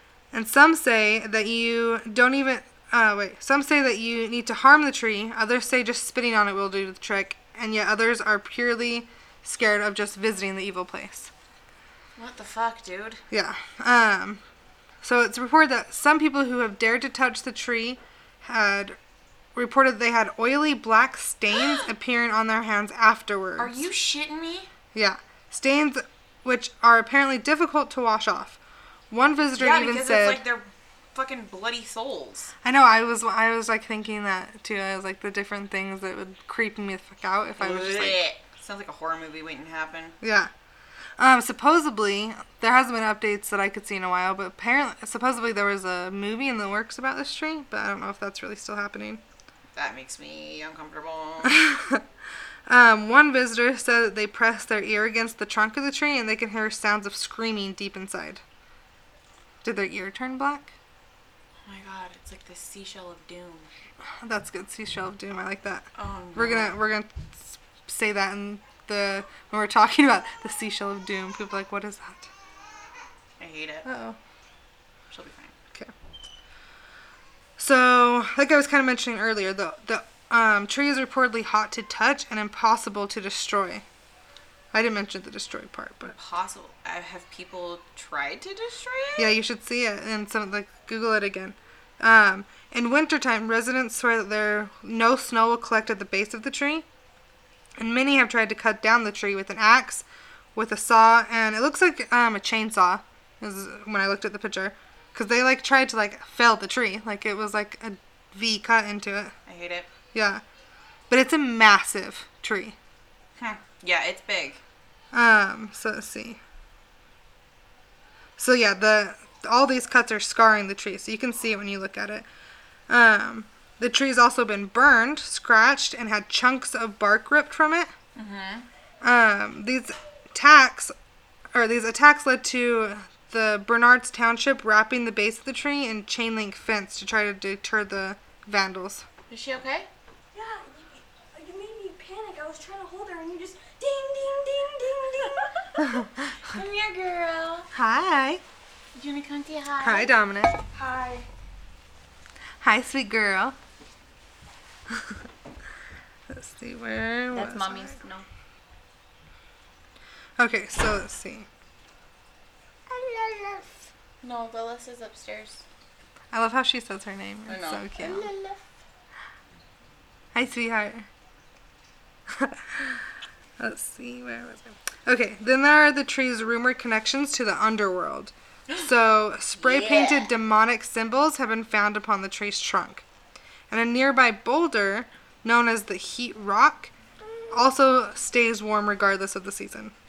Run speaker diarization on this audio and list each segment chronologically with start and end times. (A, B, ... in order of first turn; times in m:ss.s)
0:00.3-0:11.3 A
0:12.2-0:13.2 B
0:13.3-0:14.4 A
0:15.0-0:19.0 A
0:19.6-0:23.8 A
0:21.5-0:21.8 B
0:23.6-0:24.7 B
0:25.0-0:28.6 A
0:29.1-0:30.4 A
0:29.6-0:32.5 B
0:32.6-0:38.2 A
0:37.6-0:40.2 B
0:40.2-0:40.5 A
0:41.2-0:49.2 A
0:49.8-0:51.6 B
0:51.4-0:52.0 A
0:52.7-0:58.4 A
0:59.6-1:00.7 A
1:01.6-1:03.7 B
1:04.2-1:12.3 A
1:06.0-1:06.8 B
1:13.4-1:13.9 B
1:13.8-1:14.2 A
1:15.1-1:15.5 B
1:17.6-1:23.8 A
1:24.7-1:26.1 A
1:26.1-1:29.3 B
1:29.2-1:36.9 A
1:37.8-1:49.3 A
1:49.5-1:49.9 B
1:50.1-1:50.4 A
1:51.1-1:52.8 A
1:53.4-1:54.6 B
1:55.1-1:56.4 A
1:58.4-2:02.2 A
2:02.9-2:07.9 A
2:08.2-2:08.7 B
2:09.0-2:10.9 A
2:11.5-2:19.1 A
2:19.3-2:19.9 B
2:20.3-2:25.9 C
2:25.1-2:25.7 B
2:25.8-2:26.1 A
2:26.4-2:27.7 B
2:27.7-2:28.4 A
2:29.0-2:30.1 B
2:29.8-2:30.6 A
2:30.7-2:31.3 C
2:32.6-2:33.6 A
2:34.9-2:35.2 A
2:36.3-2:38.0 A
2:37.3-2:38.3 B
2:40.4-2:41.5 A
2:42.9-2:43.7 C
2:44.2-2:45.6 B
2:46.3-2:48.3 A
2:47.5-2:48.2 B
2:48.1-2:48.5 C
2:50.4-2:51.1 A
2:52.3-2:53.0 A
2:53.6-3:03.0 A
2:59.6-3:00.3 B
3:03.7-3:06.9 A
3:07.5-3:09.9 A